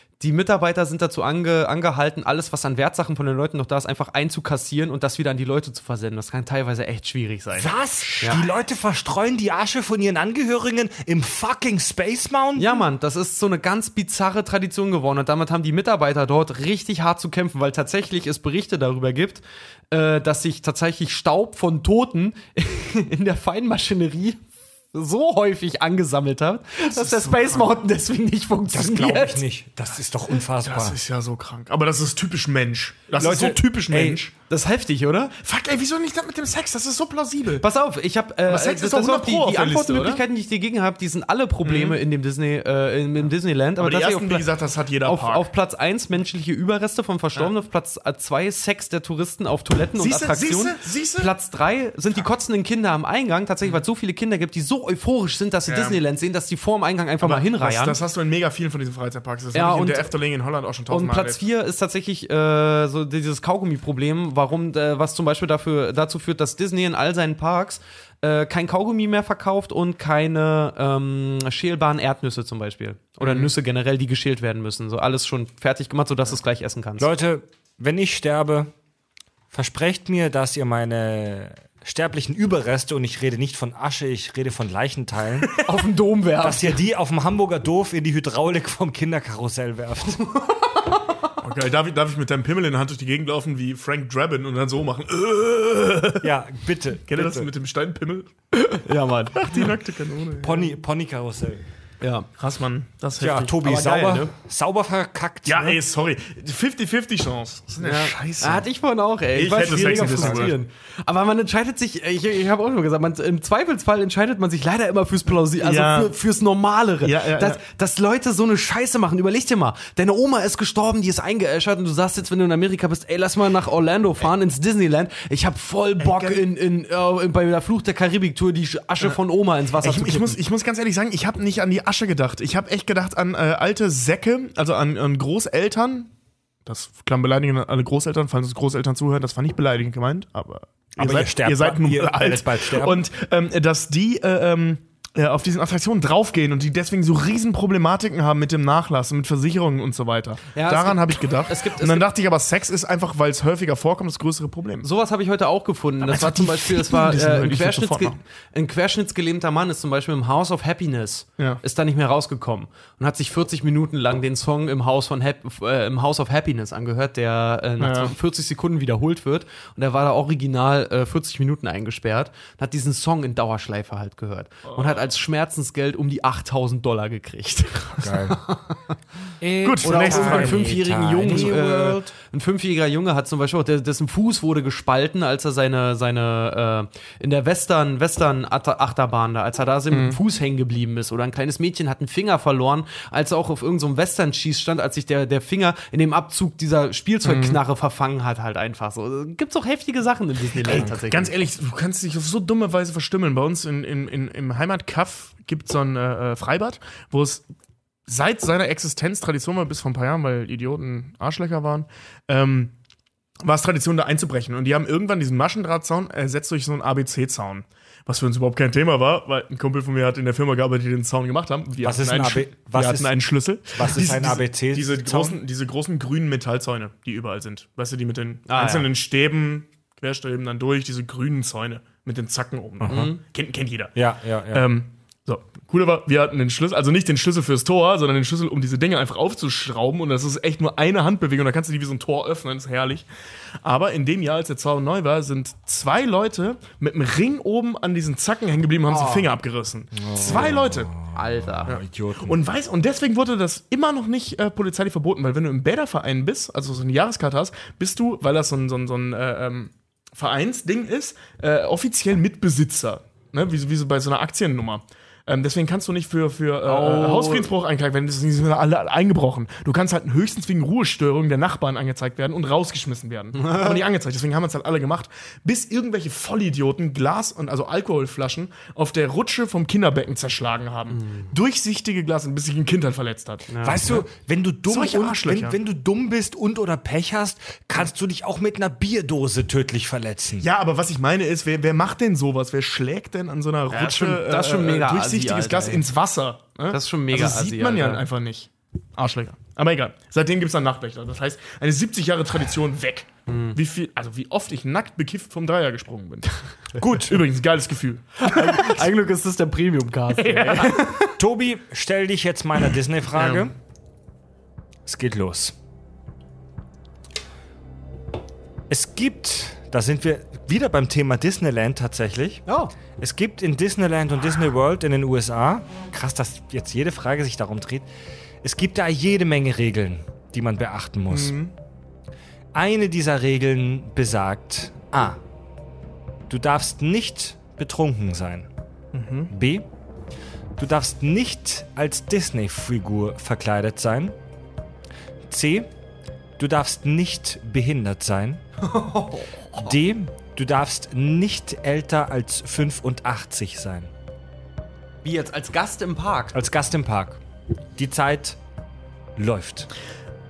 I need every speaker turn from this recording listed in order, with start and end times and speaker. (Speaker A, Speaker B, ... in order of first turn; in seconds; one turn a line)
Speaker A: 0.2-8.4
Speaker B: 7.5-12.8
Speaker A: 12.6-29.4
Speaker C: 26.8-27.7
Speaker B: 28.7-31.0
Speaker C: 30.6-34.3
Speaker B: 33.2-34.2
Speaker A: 34.5-35.4
Speaker C: 35.4-37.6
Speaker A: 37.6-44.5
Speaker C: 38.5-40.2
Speaker C: 41.6-42.0
Speaker C: 43.8-45.5
Speaker A: 45.0-58.0
Speaker C: 50.0-51.3
Speaker C: 55.7-56.0
Speaker C: 57.2-61.4
Speaker A: 59.5-60.1
Speaker A: 60.9-77.1
Speaker C: 73.2-73.5
Speaker B: 77.0-78.7
Speaker B: 79.5-85.5
Speaker C: 85.4-85.8
Speaker A: 85.6-86.8
Speaker B: 86.4-90.4
Speaker C: 91.4-96.3
Speaker B: 96.2-97.5
Speaker C: 97.0-100.8
Speaker A: 98.8-99.6
Speaker B: 100.4-101.6
Speaker A: 102.0-102.3
Speaker C: 102.4-103.6
Speaker B: 103.2-105.8
Speaker A: 103.6-104.3
Speaker C: 105.4-108.7
Speaker A: 107.8-130.4
Speaker C: 109.3-110.6
Speaker B: 109.7-110.5
Speaker C: 115.6-116.2
Speaker C: 117.0-117.6
Speaker C: 126.0-126.4
Speaker C: 129.8-136.1
Speaker C: 136.6-154.9
Speaker B: 141.0-143.1
Speaker A: 150.5-152.1
Speaker A: 154.8-178.8
Speaker C: 156.0-158.2
Speaker C: 167.8-168.1
Speaker C: 174.7-175.1
Speaker B: 178.0-178.4
Speaker B: 179.4-182.1
Speaker C: 179.6-180.7
Speaker A: 179.8-201.3
Speaker C: 189.9-190.2
Speaker C: 197.2-197.6
Speaker C: 200.6-207.4
Speaker C: 208.1-212.7
Speaker C: 213.4-233.9
Speaker B: 221.8-223.1
Speaker B: 223.7-225.4
Speaker A: 228.5-228.9
Speaker B: 232.8-233.1
Speaker A: 232.9-233.2
Speaker B: 233.9-234.7
Speaker C: 234.5-243.1
Speaker C: 243.6-250.9
Speaker B: 249.9-252.4
Speaker A: 251.1-251.8
Speaker C: 251.7-284.0
Speaker A: 266.6-267.5
Speaker A: 273.3-273.8
Speaker A: 280.9-281.3
Speaker A: 283.5-283.8
Speaker B: 283.6-290.4
Speaker C: 284.7-285.6
Speaker C: 290.4-306.3
Speaker A: 293.7-295.8
Speaker A: 296.7-298.0
Speaker A: 303.3-303.6
Speaker C: 306.8-308.9
Speaker B: 306.8-307.2
Speaker A: 308.2-311.1
Speaker C: 310.1-311.0
Speaker B: 311.2-313.5
Speaker C: 313.1-313.5
Speaker B: 314.9-315.5
Speaker B: 318.7-322.4
Speaker A: 322.5-322.7
Speaker B: 323.0-327.9
Speaker B: 328.4-331.3
Speaker C: 331.1-331.5
Speaker B: 332.5-335.2
Speaker B: 336.3-338.5
Speaker C: 338.9-339.3
Speaker B: 339.3-339.6
Speaker B: 340.6-344.1
Speaker B: 345.3-345.7
Speaker B: 346.4-348.4
Speaker A: 348.6-349.7
Speaker B: 349.6-353.9
Speaker A: 355.0-356.3
Speaker B: 356.3-357.2
Speaker B: 357.8-358.4
Speaker B: 359.2-359.7